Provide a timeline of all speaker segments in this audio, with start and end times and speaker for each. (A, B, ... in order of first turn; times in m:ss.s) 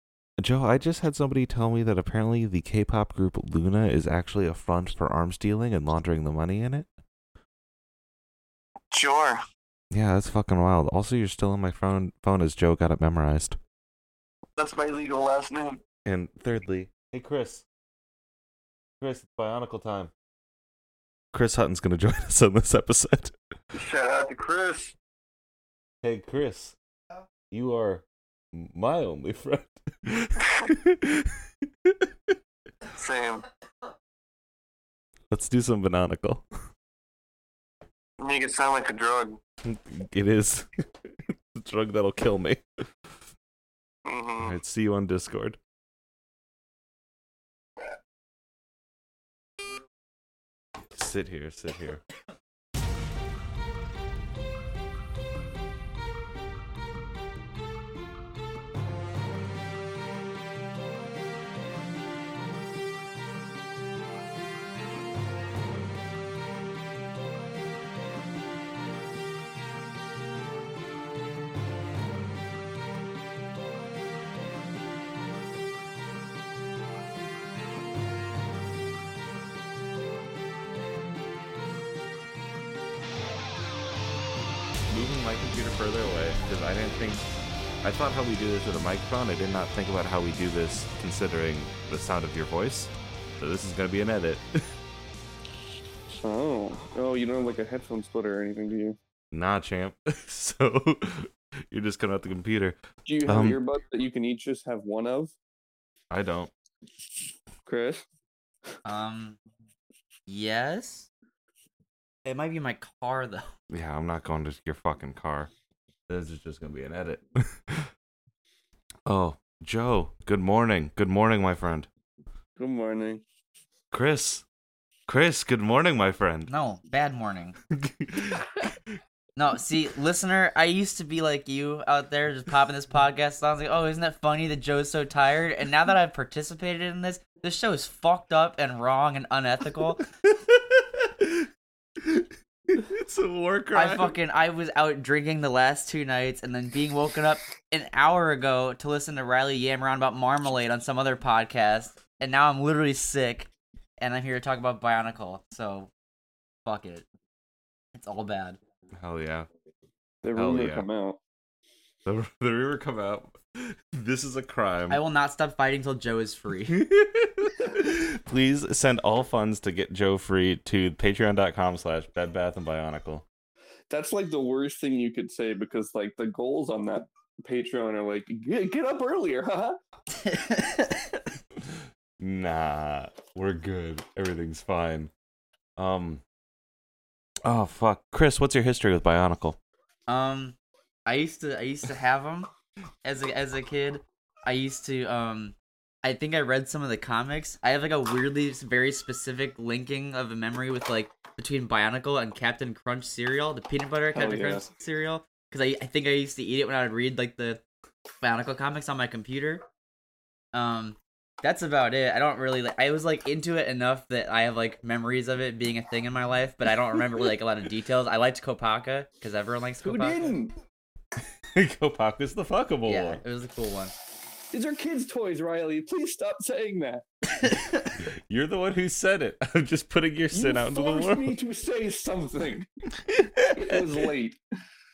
0:00.4-0:06.9 A
0:08.9-0:09.4 B
0:09.9-0:13.6 A
0:14.6-0:15.8 B
0:16.0-0:17.6 A
0:19.0-0:20.1 A
0:21.3-0:23.3 A
0:23.7-0:24.9 B
0:26.0-0:26.8 A
0:27.5-0:32.1 A
0:32.9-0:33.5 B
0:35.3-0:36.4 A
0:38.2-0:39.4 B
0:39.6-0:40.7 A
0:41.5-0:42.6 A
0:44.1-0:44.5 B
0:44.4-0:45.6 A
0:50.9-0:52.0 A
1:24.9-1:27.3 A
1:27.8-1:34.7 A
1:36.2-1:39.0 C
1:39.3-1:43.6 A
1:43.0-1:45.3 C
1:46.1-1:46.5 A
1:47.6-1:48.0 C
1:48.8-1:49.4 D
1:50.3-1:51.1 D
1:52.2-1:53.5 D
1:53.7-1:55.5 A
1:56.1-1:57.9 A
1:59.0-2:01.9 A
2:02.6-2:03.2 C
2:03.9-2:04.4 A
2:05.1-2:06.5 A
2:06.5-2:07.6 D
2:07.7-2:08.8 A
2:09.4-2:20.0 D
2:20.1-2:24.2 A
2:23.7-2:35.9 D
2:36.6-2:37.0 D
2:37.9-2:38.6 D
2:38.9-2:39.5 A
2:40.2-2:41.2 C
2:40.3-2:40.8 A
2:42.0-2:45.0 A
2:44.9-2:46.8 D
2:46.7-2:53.2 A
2:53.9-2:59.8 C
3:00.2-3:01.2 D
3:02.2-3:05.1 A
3:05.8-3:06.2 A
3:07.4-3:09.6 A
3:10.1-3:12.5 D
3:13.0-3:27.6 D
3:24.1-3:24.6 C
3:28.2-3:29.6 D
3:30.5-3:40.3 D
3:39.8-3:40.5 C
3:41.5-3:43.2 A
3:42.8-3:43.9 D
3:44.5-3:47.0 C
3:47.4-3:47.9 D
3:48.3-3:51.4 A
3:50.3-3:52.7 C
3:53.1-3:53.8 A
3:53.5-3:54.4 C